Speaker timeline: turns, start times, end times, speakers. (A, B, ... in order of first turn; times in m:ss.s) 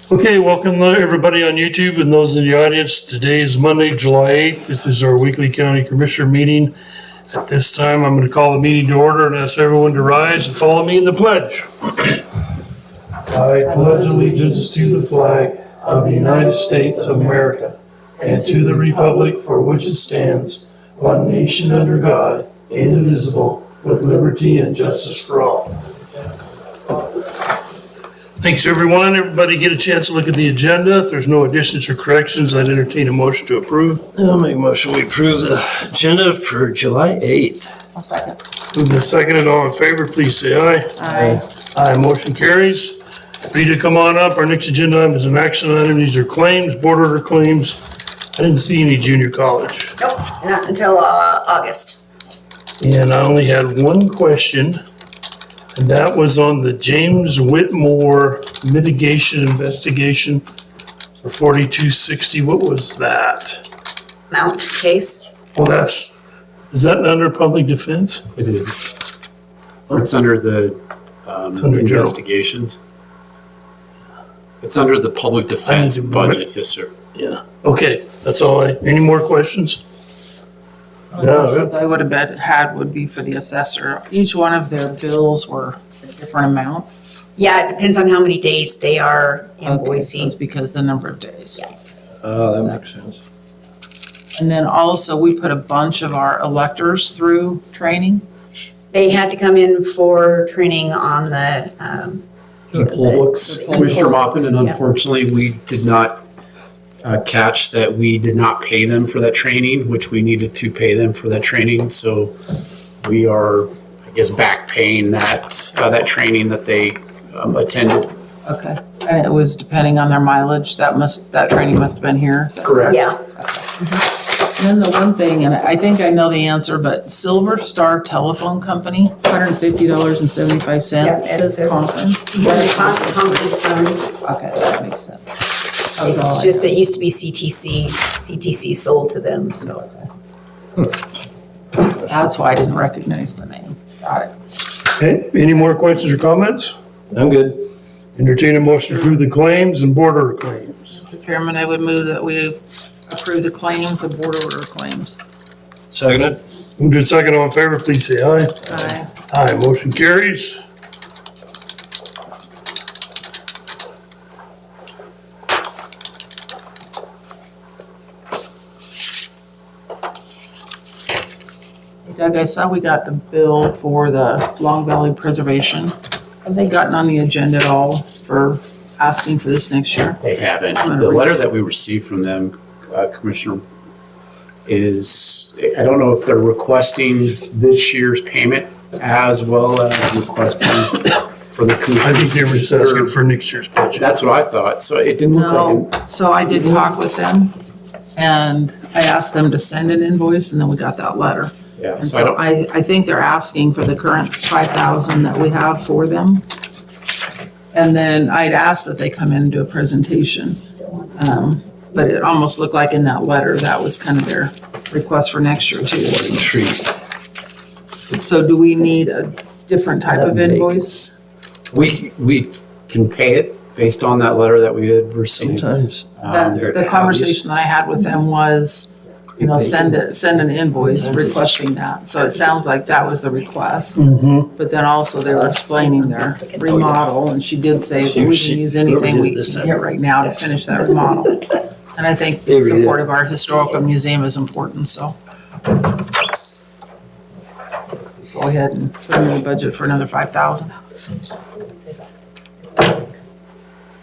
0:00.1-0:06.7 A
0:07.3-0:12.2 A
0:13.3-0:25.8 A
0:28.4-0:37.6 A
0:37.3-0:37.6 B
0:37.9-0:38.4 C
0:38.7-0:43.0 A
0:41.0-0:41.4 C
0:43.5-0:47.8 A
0:48.4-0:50.0 A
0:50.0-0:52.0 D
0:52.8-0:54.8 A
0:55.8-1:00.4 A
1:01.2-1:03.6 A
1:04.3-1:05.3 D
1:05.6-1:06.1 A
1:06.7-1:08.3 A
1:08.4-1:08.9 E
1:09.9-1:12.8 E
1:11.6-1:12.2 A
1:14.6-1:16.9 E
1:15.6-1:16.4 A
1:17.2-1:19.8 A
1:21.1-1:26.9 C
1:21.2-1:21.7 A
1:27.4-1:30.3 D
1:29.6-1:31.7 C
1:32.2-1:33.2 B
1:32.5-1:32.9 C
1:34.3-1:38.2 C
1:38.9-1:44.8 D
1:42.7-1:46.2 E
1:43.5-1:44.5 C
1:47.0-1:52.4 E
1:53.0-1:58.1 E
1:58.4-2:13.5 C
2:02.6-2:03.0 E
2:02.9-2:03.2 D
2:11.0-2:11.8 D
2:12.3-2:14.1 D
2:14.2-2:16.8 C
2:16.0-2:20.0 D
2:22.0-2:24.3 C
2:25.0-2:26.8 A
2:27.1-2:27.6 B
2:28.2-2:30.9 A
2:30.9-2:35.2 C
2:35.9-2:36.4 B
2:36.8-2:40.6 A
2:38.7-2:39.1 C
2:52.0-3:00.2 C
3:00.2-3:03.6 E
3:00.8-3:01.4 C
3:04.7-3:13.2 E
3:12.0-3:14.1 A
3:14.0-3:15.9 E
3:15.3-3:17.6 C
3:18.1-3:26.5 C
3:21.8-3:22.4 E
3:27.7-3:30.6 C
3:31.2-3:36.4 C
3:36.3-3:36.8 B
3:38.1-3:41.1 C
3:40.2-3:40.8 B
3:41.7-3:46.7 E
3:45.5-3:46.0 B
3:46.3-4:05.2 C
3:46.6-3:47.3 B
3:49.6-3:49.8 B
3:51.0-3:51.4 B
3:54.0-3:54.5 A
3:58.1-3:59.7 B
4:02.5-4:03.0 B
4:08.3-4:10.8 C